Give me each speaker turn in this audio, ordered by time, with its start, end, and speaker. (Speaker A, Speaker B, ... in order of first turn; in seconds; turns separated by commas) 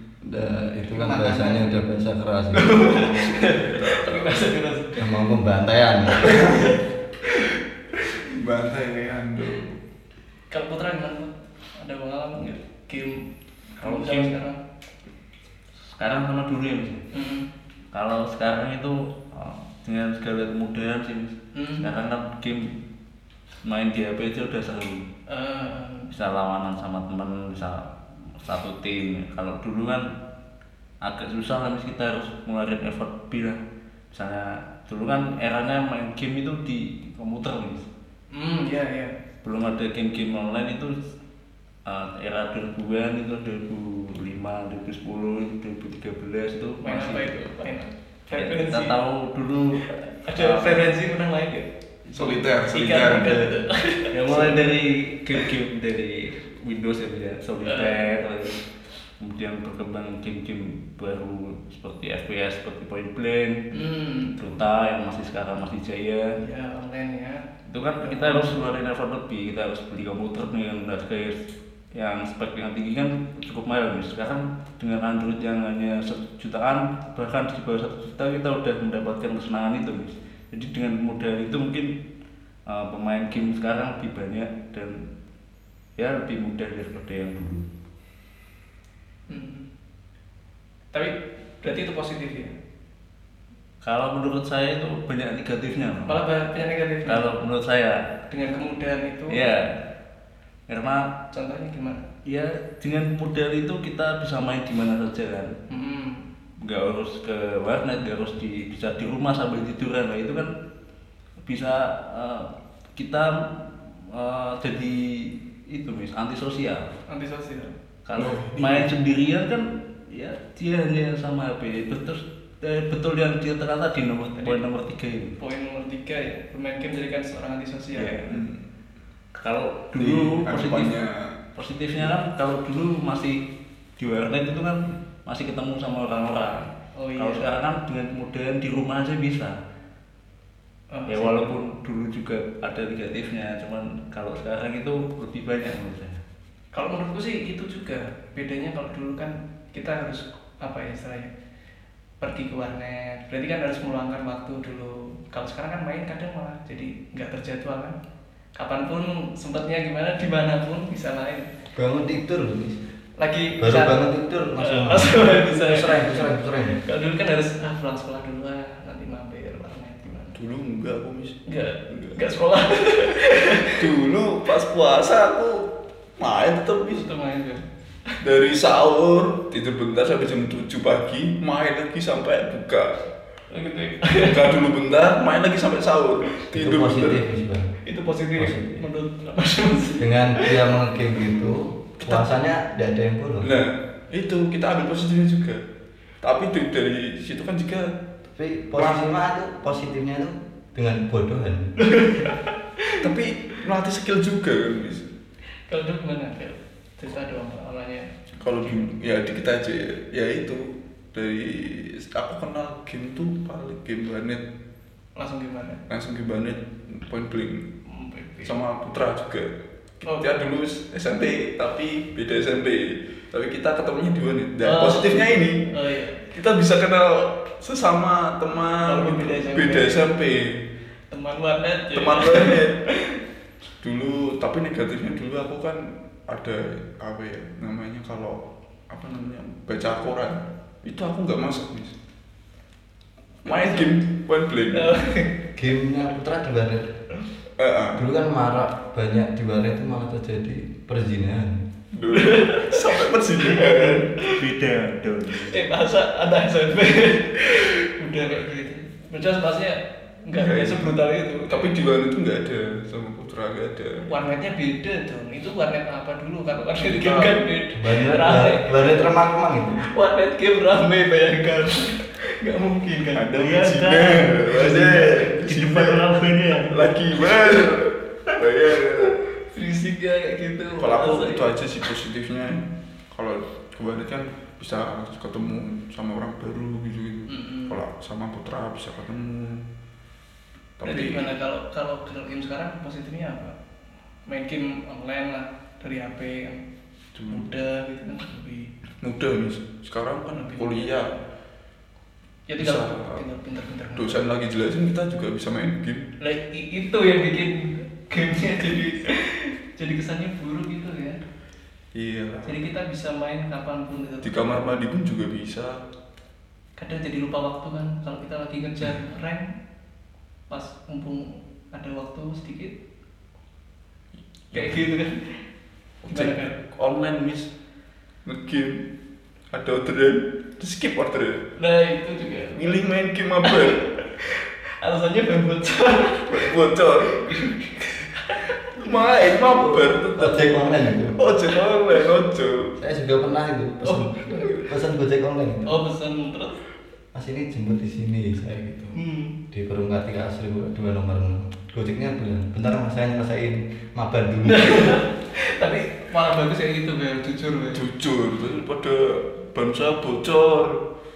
Speaker A: 0.2-3.0, Speaker B: 0.9-1.8, Speaker B: 2.5-5.1, Speaker C: 2.6-4.5, Speaker A: 5.0-6.8, Speaker B: 6.2-6.7, Speaker C: 8.3-9.8, Speaker B: 10.5-14.6, Speaker D: 13.8-14.3, Speaker D: 15.9-17.0, Speaker B: 17.1-17.5, Speaker D: 17.9-22.7, Speaker B: 21.5-21.9, Speaker D: 23.6-25.1, Speaker B: 25.3-26.1, Speaker D: 26.1-27.9, Speaker D: 28.4-30.1, Speaker D: 31.0-37.9, Speaker B: 38.3-39.1, Speaker D: 39.4-41.0, Speaker D: 41.9-47.3, Speaker B: 46.8-49.0, Speaker D: 48.3-50.9, Speaker B: 49.8-54.6, Speaker C: 52.1-53.5, Speaker D: 54.1-58.6, Speaker B: 57.6-58.0, Speaker D: 59.2-63.7, Speaker B: 63.7-64.5, Speaker D: 64.4-66.4, Speaker B: 66.4-67.5, Speaker D: 67.7-82.0, Speaker B: 68.0-68.6, Speaker D: 82.7-85.0, Speaker D: 86.0-87.7, Speaker B: 89.3-89.7, Speaker B: 90.9-92.5, Speaker D: 93.8-96.2, Speaker B: 96.1-97.3, Speaker D: 97.0-98.1, Speaker B: 98.3-99.4, Speaker D: 99.3-99.9, Speaker D: 100.7-101.1, Speaker B: 101.3-102.1, Speaker D: 102.2-105.5, Speaker B: 105.7-106.2, Speaker D: 106.6-110.5, Speaker D: 111.4-116.9, Speaker B: 117.1-117.7, Speaker D: 118.0-125.4, Speaker C: 118.1-118.9, Speaker B: 125.4-128.2, Speaker D: 128.0-128.4, Speaker C: 128.3-128.6, Speaker D: 129.3-131.0, Speaker C: 130.0-131.4, Speaker D: 131.6-133.4, Speaker D: 134.0-139.6, Speaker B: 136.9-137.5, Speaker B: 140.9-141.5, Speaker D: 141.1-146.2, Speaker B: 146.7-151.3, Speaker B: 152.2-157.9, Speaker B: 158.6-161.5, Speaker A: 161.8-162.8, Speaker B: 163.2-164.0, Speaker A: 163.6-166.8, Speaker B: 164.6-170.4, Speaker C: 170.3-172.2, Speaker B: 171.4-173.8, Speaker C: 173.8-177.1, Speaker B: 176.9-178.2, Speaker C: 178.2-183.0, Speaker B: 183.5-184.4, Speaker C: 184.2-187.3, Speaker A: 186.5-187.7, Speaker B: 187.8-190.6, Speaker A: 188.4-188.8, Speaker A: 190.0-193.5, Speaker C: 193.4-195.6, Speaker C: 196.2-197.9, Speaker A: 198.3-201.7, Speaker C: 198.7-199.1, Speaker B: 201.8-203.0, Speaker C: 203.0-205.1, Speaker B: 205.7-208.1, Speaker C: 208.4-214.4, Speaker B: 215.2-215.8, Speaker C: 215.9-217.7, Speaker B: 217.9-218.5, Speaker C: 218.4-219.5, Speaker C: 220.0-225.7, Speaker B: 220.0-220.3, Speaker B: 224.6-226.2, Speaker C: 226.2-230.6, Speaker B: 228.8-229.9, Speaker B: 231.1-232.9, Speaker C: 231.9-232.8, Speaker C: 233.8-241.9, Speaker B: 243.4-244.0, Speaker C: 243.4-244.9, Speaker B: 244.7-245.4, Speaker A: 245.6-246.9, Speaker C: 247.6-248.0, Speaker A: 247.9-251.6, Speaker C: 251.9-254.1, Speaker B: 252.1-254.3, Speaker D: 253.7-255.6, Speaker B: 255.4-261.7, Speaker C: 260.3-264.1, Speaker B: 264.1-269.0, Speaker C: 266.8-267.4, Speaker A: 267.7-269.8, Speaker B: 269.8-275.4, Speaker C: 273.1-276.0, Speaker D: 273.4-277.0, Speaker C: 276.6-279.2, Speaker B: 277.2-277.7, Speaker B: 279.0-281.5, Speaker C: 280.7-289.6, Speaker B: 287.3-287.8, Speaker C: 290.8-291.3, Speaker B: 290.8-293.5, Speaker B: 294.3-296.6, Speaker C: 297.1-297.5, Speaker B: 297.3-298.7, Speaker C: 299.0-301.1, Speaker B: 300.3-301.0, Speaker B: 302.5-304.2, Speaker C: 302.6-303.2, Speaker C: 303.9-306.1, Speaker B: 306.2-311.2, Speaker C: 311.9-312.6, Speaker B: 312.4-314.6, Speaker C: 314.2-315.8, Speaker B: 316.8-319.5, Speaker B: 320.5-322.7, Speaker C: 324.5-324.8, Speaker B: 324.5-325.4, Speaker C: 326.0-327.5, Speaker B: 326.1-326.6, Speaker C: 328.2-328.8, Speaker C: 329.5-331.5, Speaker B: 331.6-332.6, Speaker C: 332.5-333.9, Speaker B: 333.4-336.5, Speaker C: 336.3-337.4, Speaker B: 337.1-340.1, Speaker C: 338.7-342.7, Speaker A: 340.1-341.2, Speaker A: 342.8-345.7, Speaker C: 343.9-344.6, Speaker B: 345.6-346.6, Speaker A: 347.1-349.0, Speaker B: 348.9-349.4, Speaker A: 349.5-354.9, Speaker B: 354.4-357.8, Speaker C: 357.7-360.8